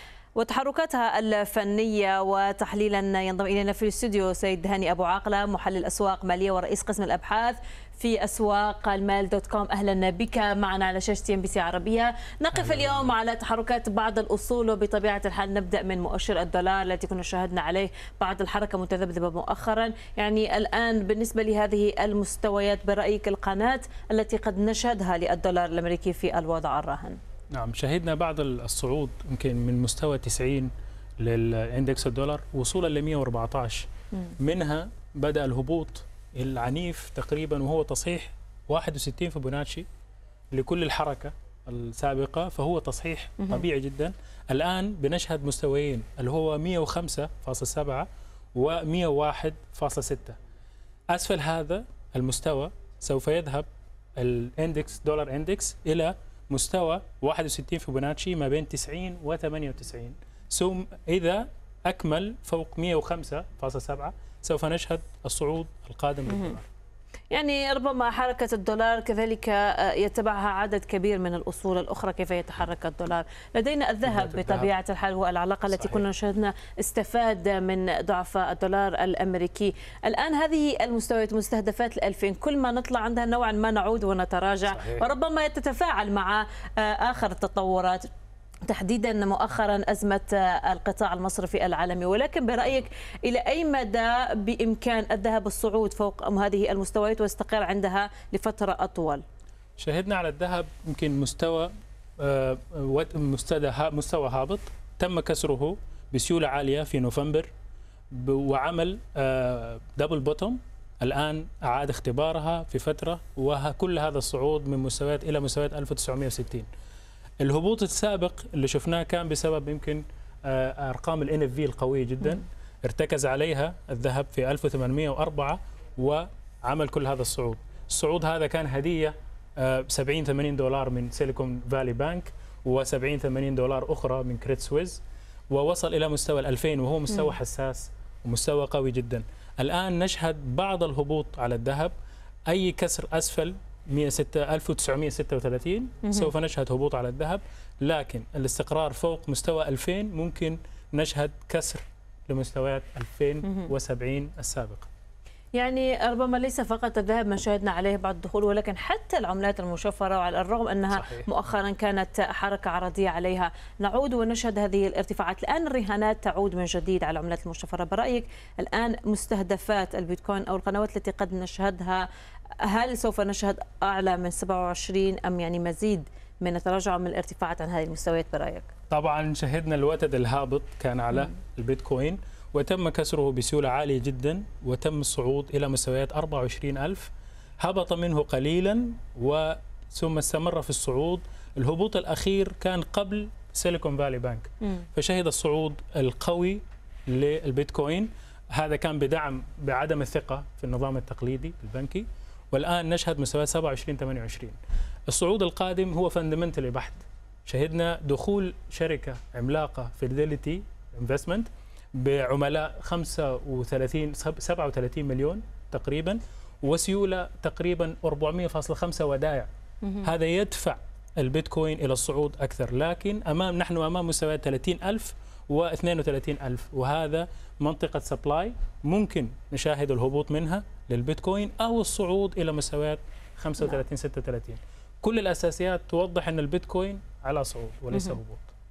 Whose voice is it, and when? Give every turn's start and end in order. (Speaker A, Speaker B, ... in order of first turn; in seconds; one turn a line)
Speaker A: 0.4-27.2
Speaker B: 12.5-13.1
Speaker B: 27.5-33.9
Speaker B: 34.4-39.9
Speaker B: 40.5-50.4
Speaker B: 51.1-66.7
Speaker A: 67.3-88.1
Speaker B: 74.0-74.7
Speaker B: 75.7-76.0
Speaker B: 84.7-85.0
Speaker A: 88.7-99.2
Speaker B: 99.8-107.5
Speaker B: 108.1-116.7
Speaker B: 117.4-141.9
Speaker B: 142.5-154.9
Speaker A: 155.6-172.1
Speaker B: 160.9-161.3
Speaker A: 172.6-178.7
Speaker B: 178.9-204.6
Speaker B: 205.1-219.5
Speaker B: 220.0-238.5